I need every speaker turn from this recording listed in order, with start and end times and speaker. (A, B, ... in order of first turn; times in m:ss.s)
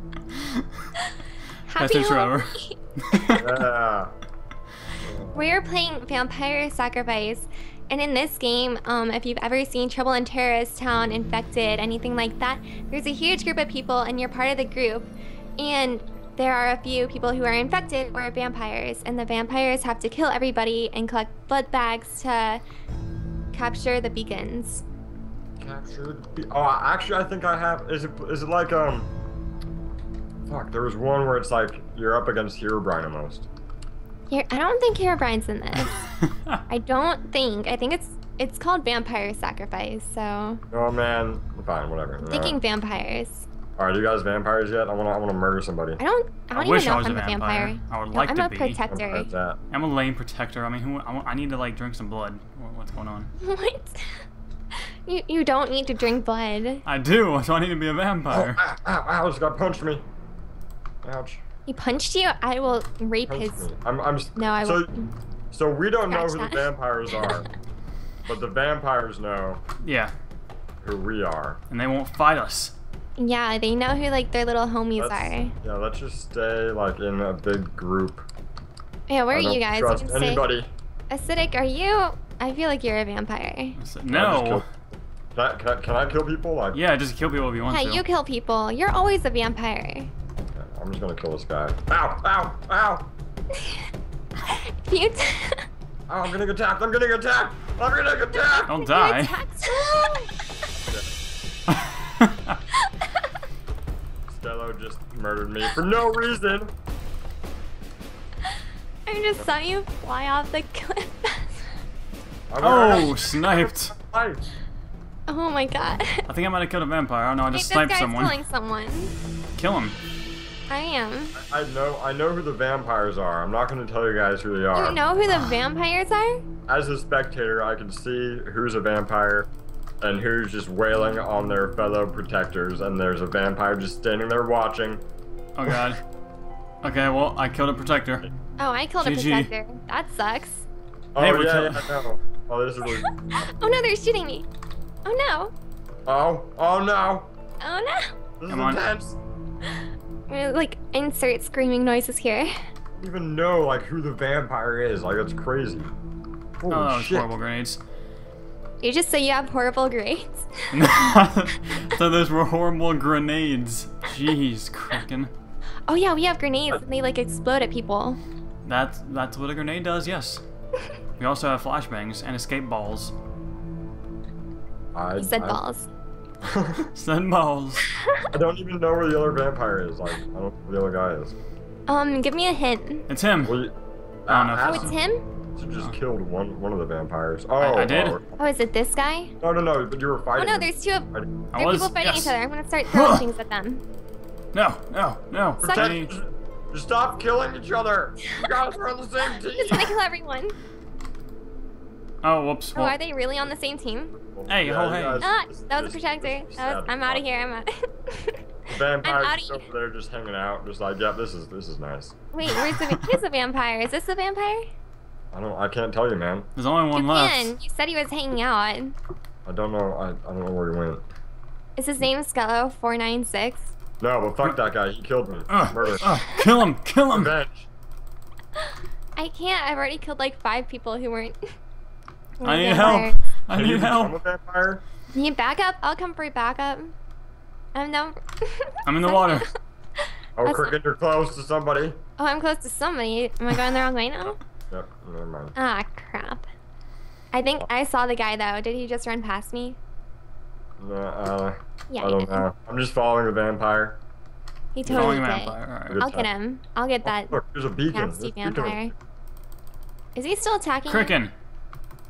0:01.0-0:03.3 A
0:01.8-0:03.4 B
0:03.4-0:04.1 C
0:05.0-0:05.4 C
0:05.3-0:22.6 A
0:23.5-0:24.8 A
0:25.6-0:29.1 C
0:30.4-0:33.5 C
0:34.3-0:36.0 A
0:35.9-0:36.6 B
0:36.7-0:40.6 A
0:40.7-0:42.6 C
0:42.3-0:43.4 A
0:43.8-0:46.0 C
0:46.0-0:49.3 A
0:46.5-0:48.8 B
0:48.9-0:49.6 C
0:49.7-0:53.3 B
0:53.4-0:54.2 A
0:55.0-0:56.8 A
0:56.9-0:58.6 B
0:58.3-1:00.0 C
1:01.0-1:01.4 C
1:01.6-1:03.7 A
1:03.3-1:04.9 C
1:04.4-1:05.1 A
1:05.5-1:07.4 C
1:06.1-1:07.4 A
1:08.2-1:09.6 C
1:09.8-1:10.1 B
1:10.8-1:11.6 C
1:11.7-1:12.7 B
1:13.2-1:15.5 A
1:15.0-1:18.3 C
1:19.1-1:20.4 A
1:19.3-1:20.7 C
1:21.1-1:23.8 A
1:23.8-1:24.6 B
1:24.1-1:24.6 C
1:25.3-1:26.8 C
1:26.7-1:28.0 B
1:27.7-1:30.1 A
1:30.5-1:33.1 C
1:33.5-1:33.9 A
1:34.4-1:35.6 A
1:36.1-1:38.8 C
1:38.4-1:39.9 A
1:38.7-1:39.4 B
1:39.8-1:40.2 C
1:41.7-1:42.6 B
1:42.8-1:43.3 A
1:44.3-1:46.7 C
1:49.0-1:51.7 A
1:52.5-1:54.5 C
1:52.6-1:53.9 B
1:55.3-1:56.3 A
1:56.3-1:58.4 B
1:57.5-1:59.1 A
1:59.6-2:00.0 B
2:00.7-2:01.3 A
2:01.4-2:05.0 C
2:04.7-2:06.4 A
2:06.7-2:09.5 C
2:10.0-2:15.0 C
2:15.6-2:16.0 B
2:16.8-2:18.2 B
2:18.6-2:20.7 A
2:19.0-2:19.5 B
2:21.2-2:23.1 C
2:21.2-2:22.0 B
2:22.9-2:24.5 A
2:25.0-2:25.5 A
2:26.1-2:27.3 C
2:27.6-2:28.1 A
2:28.4-2:29.2 C
2:28.5-2:28.8 B
2:30.3-2:32.5 A
2:33.0-2:35.9 C
2:36.6-2:37.3 C
2:36.7-2:37.8 B
2:38.8-2:40.5 A
2:40.7-2:45.3 B
2:45.9-2:48.2 A
2:48.6-2:50.4 B
2:51.2-2:53.1 B
2:54.9-2:55.6 C
2:55.2-2:55.9 A
2:56.4-2:56.9 C
2:57.0-2:57.8 B
2:58.3-3:01.3 C
3:01.9-3:03.1 A
3:03.1-3:03.6 B
3:03.4-3:03.8 C
3:04.2-3:05.0 C
3:04.3-3:05.0 B
3:04.6-3:05.2 A
3:05.6-3:08.3 C
3:07.6-3:08.2 B
3:08.4-3:09.3 A
3:09.4-3:11.4 C
3:10.4-3:13.8 A
3:11.5-3:12.4 B
3:12.9-3:13.2 B
3:14.5-3:16.1 B
3:15.6-3:20.0 C
3:15.6-3:16.0 A
3:19.5-3:20.6 A
3:22.2-3:23.0 B
3:22.8-3:24.2 A
3:24.2-3:27.2 C
3:24.5-3:25.3 B
3:25.2-3:28.4 A
3:28.7-3:32.2 C
3:29.0-3:29.7 A
3:32.3-3:34.7 A
3:32.5-3:33.1 B
3:35.3-3:36.5 C
3:36.6-3:37.6 B
3:36.9-3:39.0 A
3:39.4-3:41.1 C
3:41.8-3:43.8 A
3:44.0-3:46.1 C
3:45.5-3:47.4 B
3:47.1-3:47.7 C
3:49.2-3:51.4 A
3:52.4-3:53.1 A
3:52.4-3:54.2 B
3:53.5-3:54.8 C
3:55.1-3:56.9 A
3:57.8-3:59.5 A
3:58.8-3:59.5 B
4:00.4-4:02.0 C
4:00.4-4:00.8 A
4:02.2-4:04.4 A
4:04.7-4:05.5 C
4:05.6-4:06.5 A
4:07.3-4:09.8 A
4:10.8-4:14.0 C
4:11.9-4:12.5 A
4:14.8-4:17.4 A
4:14.8-4:15.2 C
4:14.8-4:16.0 B
4:15.9-4:16.3 C
4:17.0-4:18.9 C
4:17.9-4:18.9 A
4:20.1-4:21.2 A
4:20.8-4:21.3 B